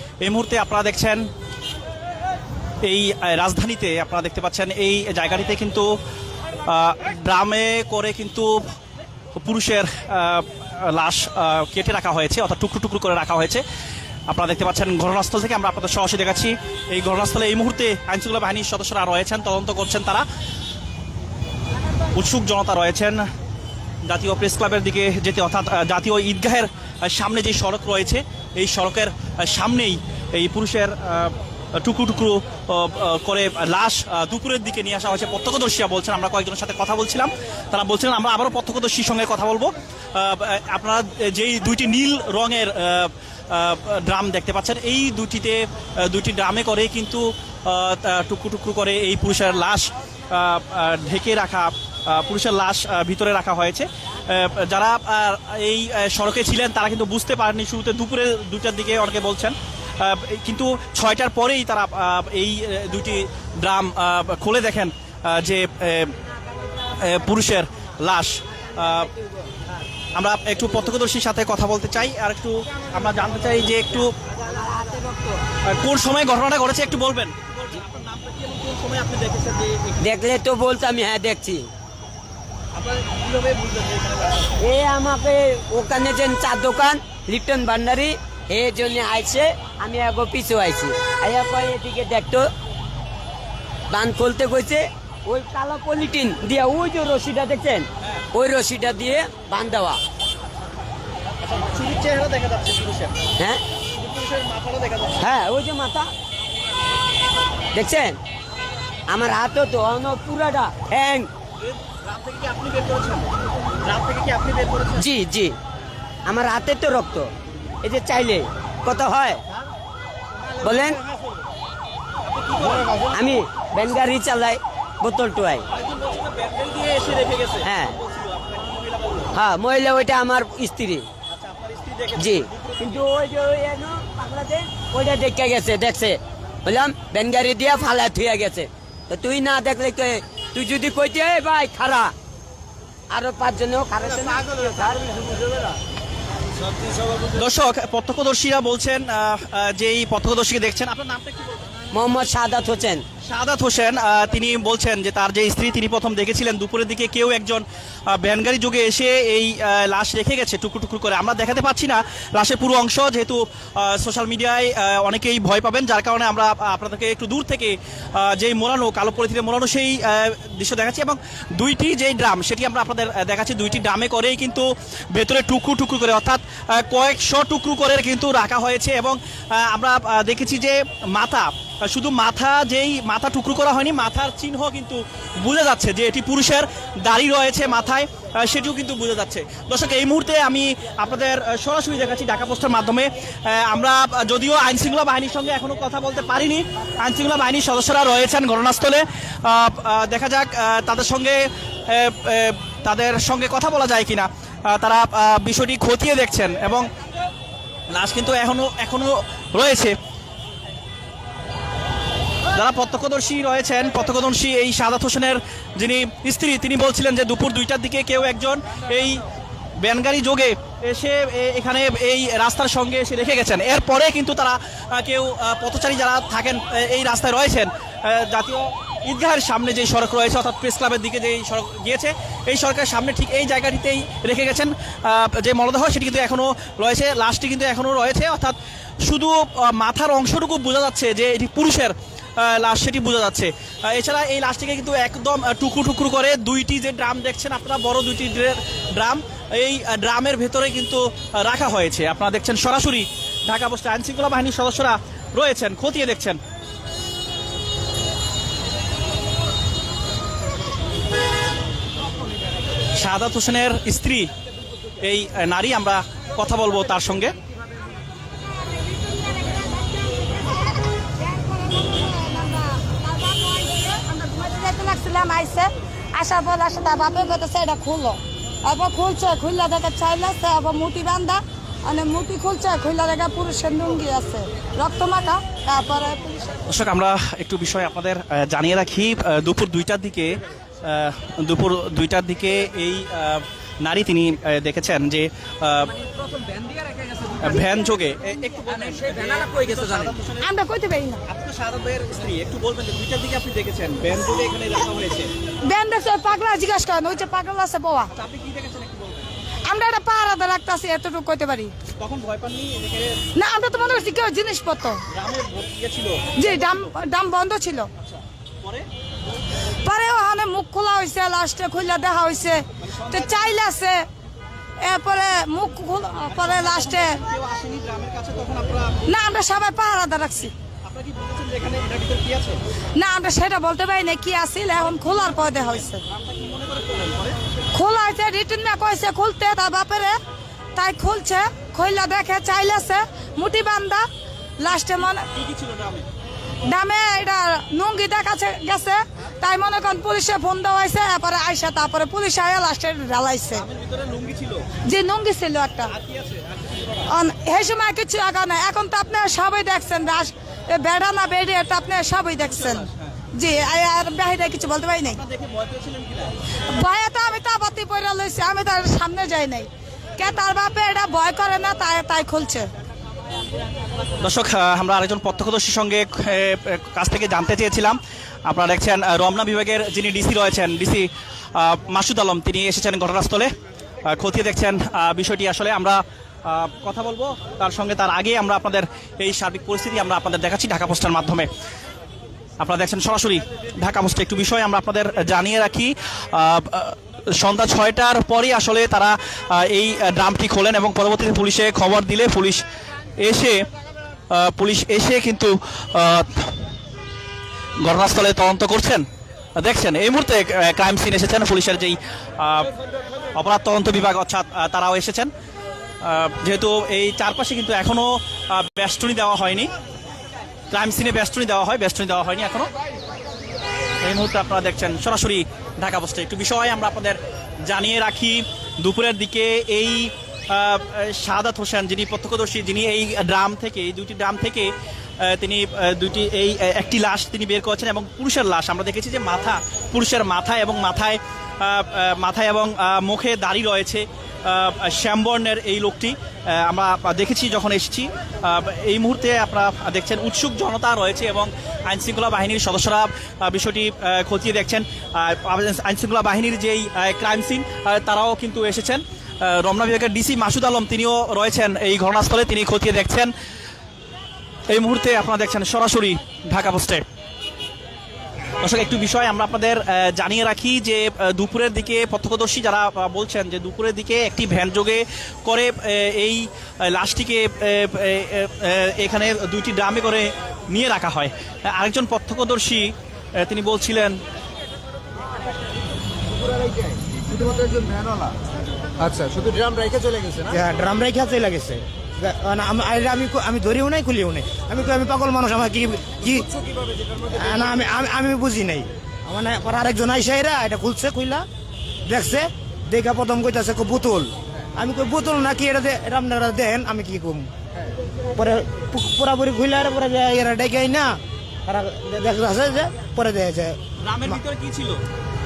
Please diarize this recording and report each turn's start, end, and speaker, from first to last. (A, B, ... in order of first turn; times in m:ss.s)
0:00.2-0:01.2 A
0:02.8-0:05.9 A
0:06.7-0:08.6 A
0:09.4-0:13.6 A
0:14.3-0:20.2 A
0:22.2-0:23.2 A
0:24.1-1:06.2 A
1:07.0-1:09.1 A
1:10.2-1:14.2 A
1:14.5-1:15.3 B
1:15.6-1:20.0 A
1:20.0-1:21.7 B
1:22.8-1:24.5 A
1:24.6-1:32.5 B
1:33.9-1:40.0 B
1:41.4-1:43.2 A
1:44.0-1:45.2 A
1:45.2-1:46.1 B
1:47.7-1:48.2 B
1:49.1-1:51.3 B
1:51.8-1:53.3 A
1:53.8-1:55.0 A
1:55.0-1:55.6 B
1:56.3-1:57.3 B
1:57.8-1:59.4 B
2:00.6-2:01.0 B
2:02.2-2:03.1 A
2:03.1-2:05.7 B
2:05.7-2:09.4 A
2:07.6-2:08.0 B
2:09.3-2:11.1 B
2:11.3-2:13.0 A
2:12.2-2:22.1 B
2:23.1-2:25.5 B
2:27.3-2:31.7 A
2:31.9-2:33.0 B
2:33.2-3:26.9 A
3:27.9-3:30.0 A
3:32.5-3:39.2 A
3:39.8-4:16.4 A
4:23.0-4:24.3 A
4:25.0-4:27.3 A
4:30.9-4:46.6 C
4:46.7-4:56.0 A
4:57.4-5:00.5 A
5:00.4-5:01.2 C
5:01.3-5:05.3 A
5:05.6-5:08.1 C
5:08.1-5:09.3 A
5:09.7-5:11.7 C
5:12.0-5:13.3 A
5:13.4-5:15.0 C
5:15.1-5:16.9 A
5:16.4-5:17.9 C
5:18.0-5:18.9 A
5:19.8-5:24.0 C
5:22.8-5:23.6 A
5:24.8-5:27.2 C
5:26.3-5:29.1 A
5:29.1-5:30.5 C
5:30.8-5:32.6 A
5:33.0-5:36.0 C
5:35.3-5:37.4 A
5:37.7-5:40.2 C
5:40.8-5:44.1 C
5:44.6-5:45.3 C
5:45.2-5:46.1 A
5:46.7-5:53.6 C
5:53.5-5:54.8 A
5:54.9-5:55.9 C
5:55.9-5:57.1 A
5:57.1-6:02.8 C
6:02.4-6:03.2 A
6:03.4-6:05.2 C
6:05.1-6:06.3 A
6:06.7-6:12.7 C
6:14.2-6:23.5 A
6:24.1-6:31.5 A
6:32.6-6:42.6 A
6:43.2-6:43.6 A
6:44.3-6:46.6 A
6:47.8-6:49.0 A
6:49.6-6:52.7 A
6:53.4-6:55.3 A
6:56.0-6:59.7 A
7:00.7-7:02.7 A
7:04.0-7:43.3 A
7:44.7-7:47.0 A
7:48.6-8:04.2 A
8:07.4-8:08.3 D
8:09.0-8:10.4 D
8:10.5-8:16.5 E
8:17.3-8:21.4 E
8:22.1-8:27.5 E
8:28.4-8:34.4 E
8:34.0-8:35.0 A